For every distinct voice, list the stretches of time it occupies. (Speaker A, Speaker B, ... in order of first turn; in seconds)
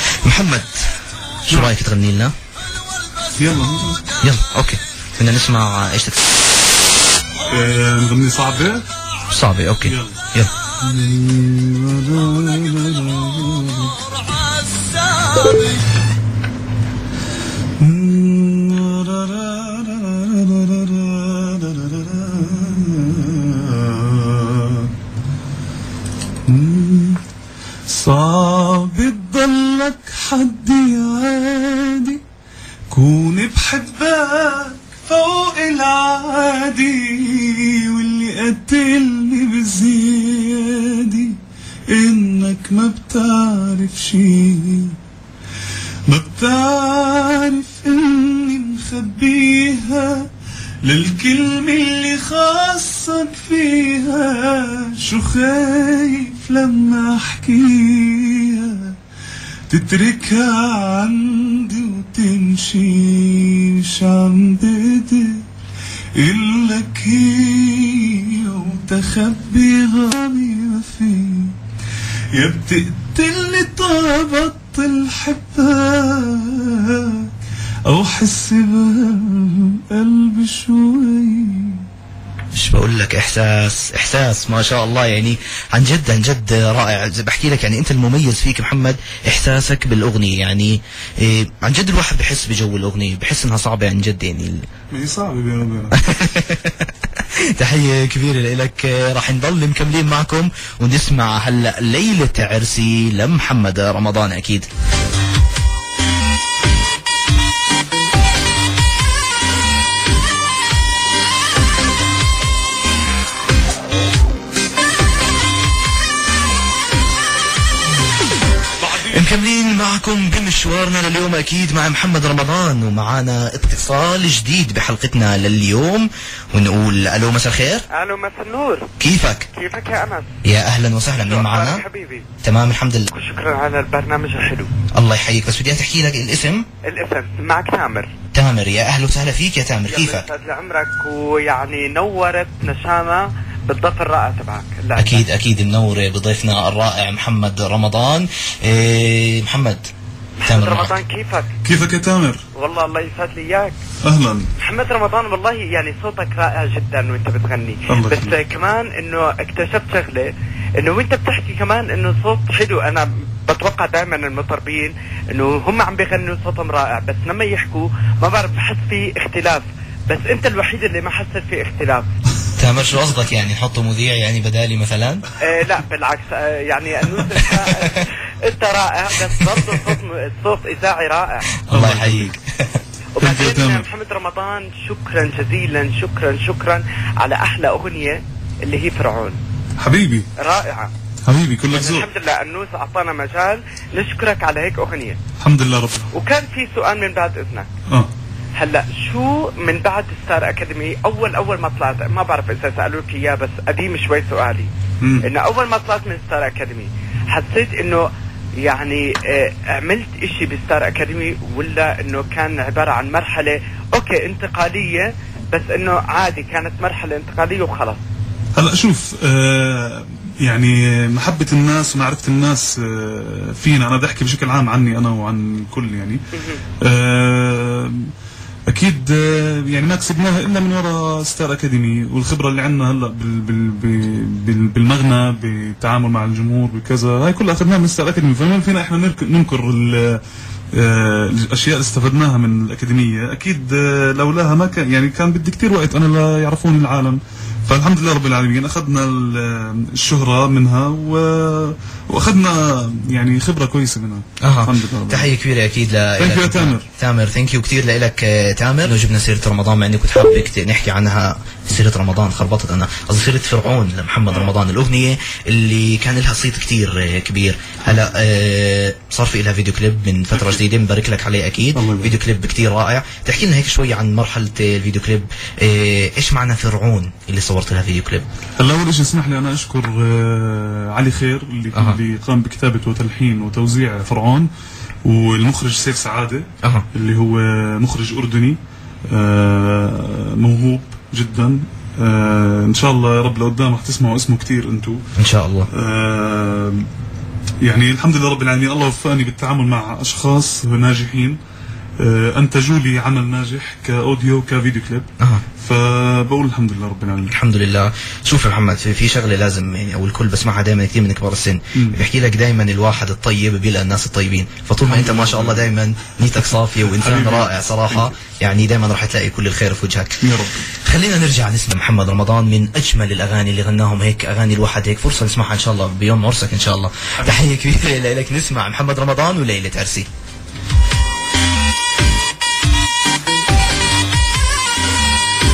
Speaker A: 0.2-0.9, 1.4-2.3, 4.2-6.3, 9.3-10.5, 82.5-94.7, 95.9-104.7, 119.0-127.9, 129.0-129.5, 130.4-131.8, 132.4-133.1, 134.9-136.7, 138.3-140.3, 145.0-149.9, 150.5-151.0, 172.6-175.2, 181.7-182.8, 254.4-278.3, 281.7-282.0, 295.2-295.7, 305.2-305.4, 307.3-330.1
Speaker B: 3.4-4.0, 7.5-8.8, 9.9-10.2, 10.8-14.1, 17.8-24.9, 26.5-27.2, 27.9-32.2, 32.9-45.0, 46.1-50.3, 50.8-59.0, 59.7-65.5, 66.2-71.6, 72.3-77.3, 77.9-81.8, 94.9-96.0, 118.8-119.2, 151.7-152.4, 154.0-154.5, 157.9-158.4, 181.7-182.3, 183.2-183.9, 189.8-190.3, 191.3-192.1, 195.4-196.1, 205.0-205.3, 218.6-226.2, 226.8-228.1, 228.7-240.2, 240.7-255.3, 256.2-256.9, 271.8-272.2, 278.6-284.5, 285.1-288.6, 289.1-295.0, 295.7-296.9, 297.6-301.4, 302.0-305.1, 305.6-307.3, 311.8-312.0, 314.8-315.7, 316.5-318.2, 320.2-320.7, 327.2-327.4
Speaker C: 127.9-128.9, 129.5-130.3, 131.2-132.3, 133.1-134.7, 136.8-138.1, 139.9-145.3, 150.4-151.5, 152.5-153.8, 154.6-172.1, 175.4-181.5, 183.2-189.4, 190.4-190.9, 191.7-195.2, 196.1-197.7, 198.6-204.7, 205.2-208.1, 208.6-218.0, 226.3-226.6